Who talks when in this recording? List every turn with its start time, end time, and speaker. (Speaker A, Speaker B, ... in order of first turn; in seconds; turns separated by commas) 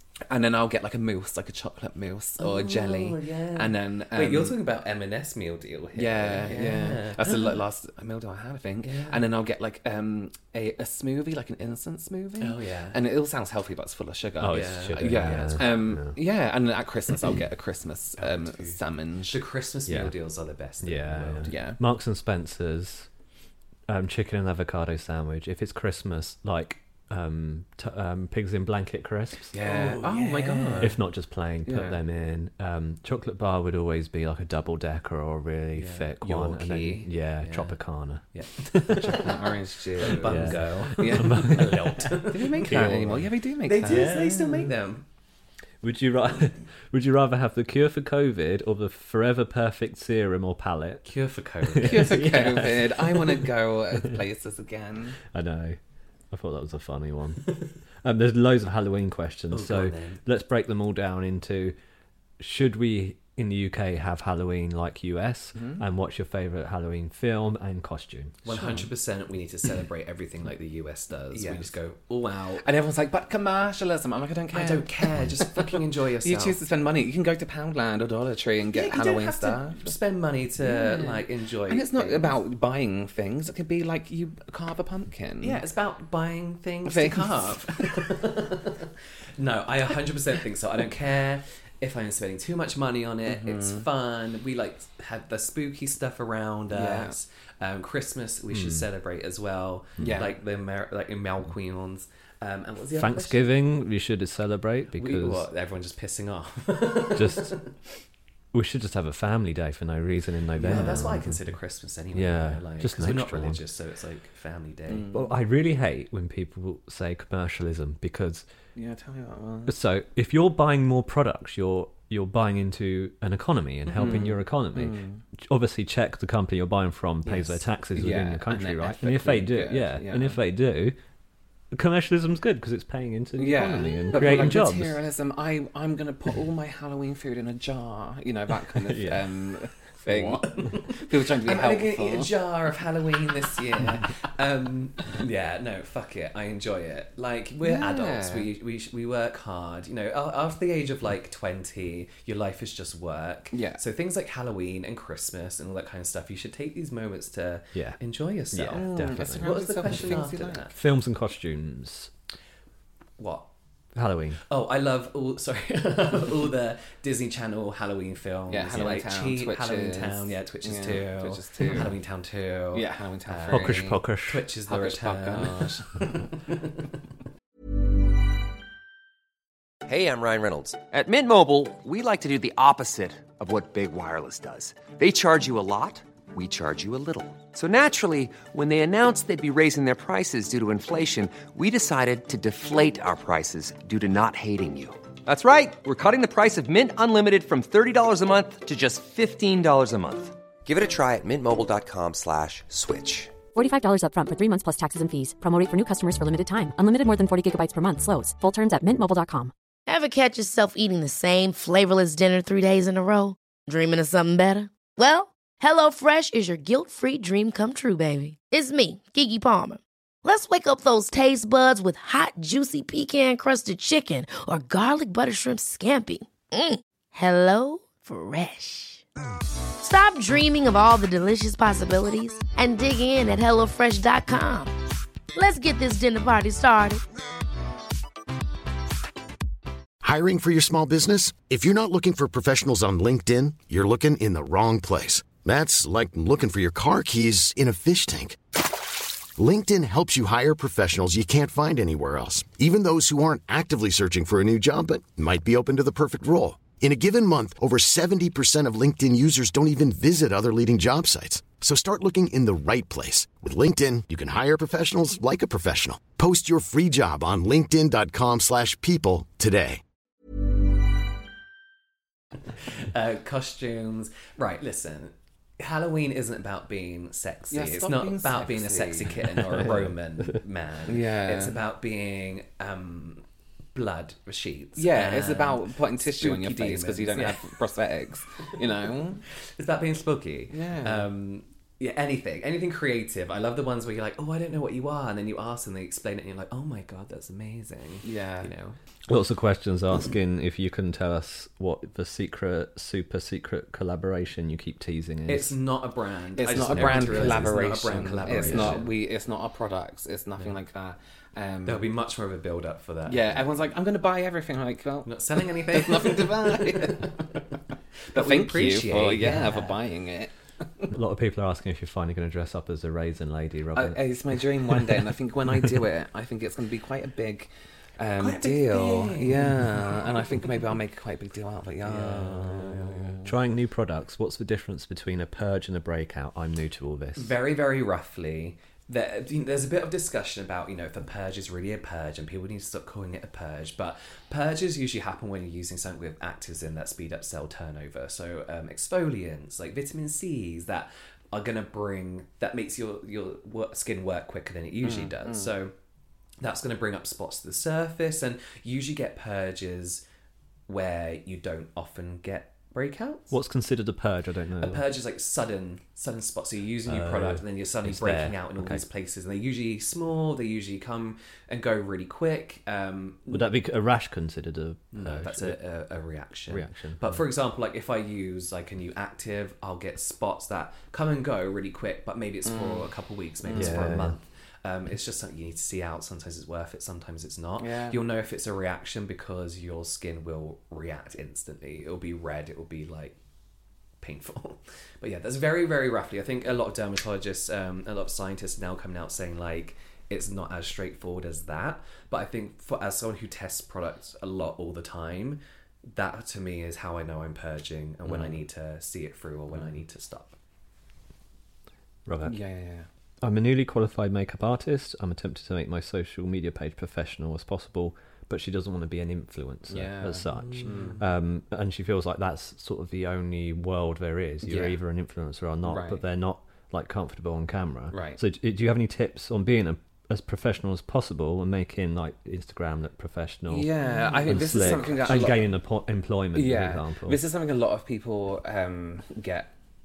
Speaker A: 0.3-4.6, Speaker B: 2.4-7.5, Speaker A: 5.9-19.4, Speaker B: 8.8-9.3, Speaker B: 12.4-13.0, Speaker C: 14.4-16.2, Speaker B: 14.4-15.7, Speaker B: 18.2-21.5, Speaker C: 19.9-20.1, Speaker C: 20.8-23.1, Speaker A: 21.5-21.8, Speaker C: 23.9-29.5, Speaker A: 29.5-31.0, Speaker B: 29.5-30.9, Speaker C: 30.8-39.3, Speaker A: 31.6-32.0, Speaker B: 35.8-36.8, Speaker A: 36.2-37.0, Speaker B: 37.4-37.8, Speaker B: 38.3-39.4, Speaker A: 39.0-41.7, Speaker B: 40.0-43.1, Speaker C: 40.1-43.3, Speaker A: 42.3-44.3, Speaker B: 43.6-45.0, Speaker C: 43.8-44.7, Speaker C: 45.8-51.1, Speaker B: 51.0-52.5, Speaker C: 51.6-53.5, Speaker A: 51.8-55.2, Speaker C: 55.3-55.8, Speaker C: 56.3-61.7, Speaker B: 59.5-60.2, Speaker C: 62.4-68.4, Speaker A: 65.5-65.8, Speaker B: 68.4-72.6, Speaker A: 68.5-68.9, Speaker A: 71.3-71.7, Speaker A: 72.6-79.9, Speaker B: 74.5-76.6, Speaker B: 78.7-82.3, Speaker A: 80.6-85.6, Speaker B: 85.4-103.4, Speaker A: 86.8-87.9, Speaker A: 93.2-93.8, Speaker A: 96.7-97.2, Speaker C: 98.5-98.8, Speaker A: 100.0-100.3, Speaker C: 102.9-105.5, Speaker B: 104.9-107.7, Speaker C: 107.1-107.6, Speaker C: 108.5-111.5, Speaker B: 110.6-115.1, Speaker C: 112.1-113.6, Speaker A: 114.9-115.3, Speaker C: 115.1-118.5, Speaker A: 118.8-119.7, Speaker C: 119.7-130.9, Speaker A: 123.9-125.2, Speaker A: 127.2-130.4, Speaker C: 131.7-135.0, Speaker A: 133.3-142.3, Speaker C: 138.8-140.4, Speaker B: 140.4-160.8, Speaker A: 147.6-148.5, Speaker A: 153.5-153.8, Speaker C: 157.7-158.0, Speaker C: 158.5-160.2, Speaker A: 158.7-160.7, Speaker C: 160.7-162.1, Speaker B: 163.2-163.5, Speaker C: 163.9-164.4, Speaker B: 164.4-176.8, Speaker A: 168.5-171.9, Speaker A: 172.7-174.0, Speaker C: 173.5-174.4, Speaker A: 174.7-176.3, Speaker D: 179.8-203.3, Speaker E: 203.5-209.5, Speaker F: 209.9-229.0, Speaker F: 229.8-234.7, Speaker F: 235.3-237.0, Speaker G: 240.0-248.4, Speaker G: 249.3-269.8, Speaker B: 272.7-287.6, Speaker A: 277.5-279.7, Speaker A: 280.9-281.6, Speaker A: 284.8-289.2, Speaker B: 289.6-298.8, Speaker A: 290.5-291.1, Speaker A: 298.0-298.5, Speaker C: 299.1-305.6, Speaker B: 305.3-308.9, Speaker A: 306.4-311.9, Speaker C: 306.6-307.6, Speaker C: 308.2-308.8, Speaker B: 311.6-313.5, Speaker A: 313.1-317.4, Speaker B: 315.0-317.4, Speaker B: 318.1-319.8, Speaker A: 318.1-320.9, Speaker C: 320.9-324.1, Speaker A: 323.7-333.3, Speaker B: 328.2-330.2, Speaker B: 331.8-333.2, Speaker C: 333.2-337.4, Speaker B: 337.1-355.7, Speaker A: 354.8-355.5, Speaker B: 356.4-360.0, Speaker B: 360.7-363.4, Speaker C: 363.3-364.9, Speaker B: 364.6-373.4, Speaker C: 366.9-368.8, Speaker C: 373.3-375.6, Speaker B: 374.9-393.2, Speaker C: 376.5-377.2, Speaker A: 382.4-382.9, Speaker A: 383.4-383.9, Speaker C: 383.5-384.2, Speaker A: 387.6-388.0, Speaker B: 394.0-410.4, Speaker A: 408.1-408.3, Speaker C: 412.1-412.4, Speaker A: 412.2-412.9, Speaker C: 413.2-433.7, Speaker A: 419.7-420.9, Speaker B: 420.4-421.0, Speaker A: 424.4-424.8, Speaker A: 425.6-426.0, Speaker A: 427.9-428.2, Speaker A: 433.5-435.5, Speaker B: 433.9-435.2, Speaker C: 434.3-437.2, Speaker A: 436.3-439.5